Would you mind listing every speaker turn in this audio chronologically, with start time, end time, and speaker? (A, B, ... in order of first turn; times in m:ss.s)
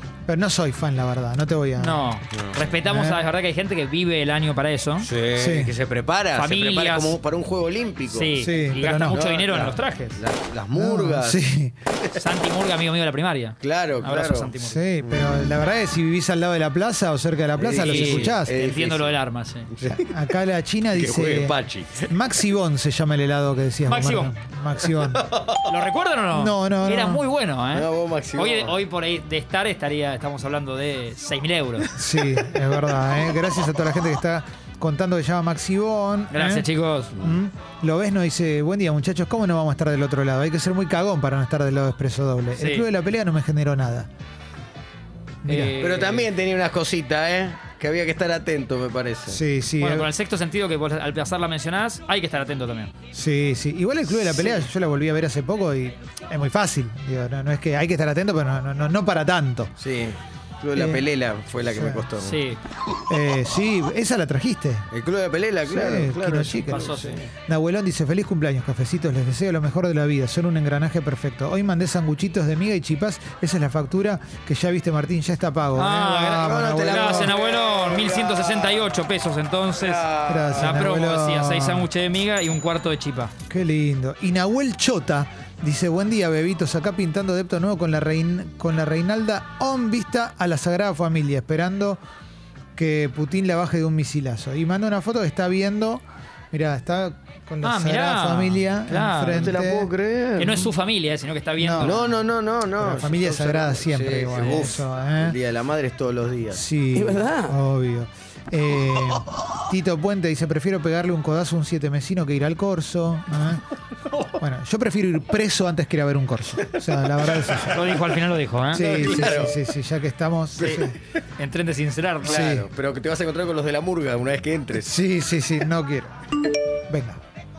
0:00.3-0:02.0 A
0:01.8-0:05.1 B
0:02.8-0:03.2 A
0:05.0-0:08.3 C
0:05.3-0:05.7 A
0:06.3-0:07.2 B
0:08.1-0:10.2 B
0:08.3-0:09.2 A
0:09.1-0:11.4 C
0:10.7-0:11.7 A
0:12.1-0:14.8 B
0:13.6-0:14.5 C
0:14.6-0:18.6 A
0:17.5-0:19.1 C
0:17.8-0:19.7 B
0:19.7-0:20.1 C
0:19.8-0:25.2 A
0:20.9-0:22.1 C
0:23.9-0:24.3 B
0:25.2-0:25.7 C
0:25.6-0:31.9 B
0:26.3-0:27.2 A
0:27.7-0:28.7 C
0:31.9-0:44.1 A
0:36.3-0:37.2 B
0:42.6-0:42.9 B
0:45.4-0:45.8 A
0:45.4-0:46.3 B
0:45.8-0:49.4 C
0:49.3-0:50.1 A
0:49.8-0:52.9 B
0:53.1-0:59.7 A
0:54.1-0:54.7 C
0:59.8-1:02.4 C
1:00.7-1:01.0 A
1:01.7-1:02.1 A
1:02.2-1:02.6 B
1:03.1-1:04.9 A
1:04.9-1:07.3 C
1:05.7-1:17.3 A
1:06.7-1:07.2 B
1:15.8-1:23.3 B
1:16.4-1:18.9 C
1:19.7-1:20.8 C
1:20.3-1:21.9 A
1:23.5-1:32.0 A
1:32.8-1:39.9 A
1:37.6-1:39.6 B
1:39.4-1:40.7 C
1:40.4-1:42.1 B
1:41.6-1:41.9 A
1:41.8-1:47.2 C
1:42.8-1:45.4 A
1:44.4-1:44.7 B
1:46.5-1:53.6 A
1:54.4-1:57.9 A
1:57.3-1:57.6 C
1:57.7-1:59.3 B
1:58.7-2:01.0 A
1:58.8-1:59.6 C
2:00.6-2:00.9 C
2:01.4-2:02.5 B
2:02.2-2:04.9 C
2:02.2-2:02.7 A
2:04.8-2:06.1 A
2:06.9-2:07.2 A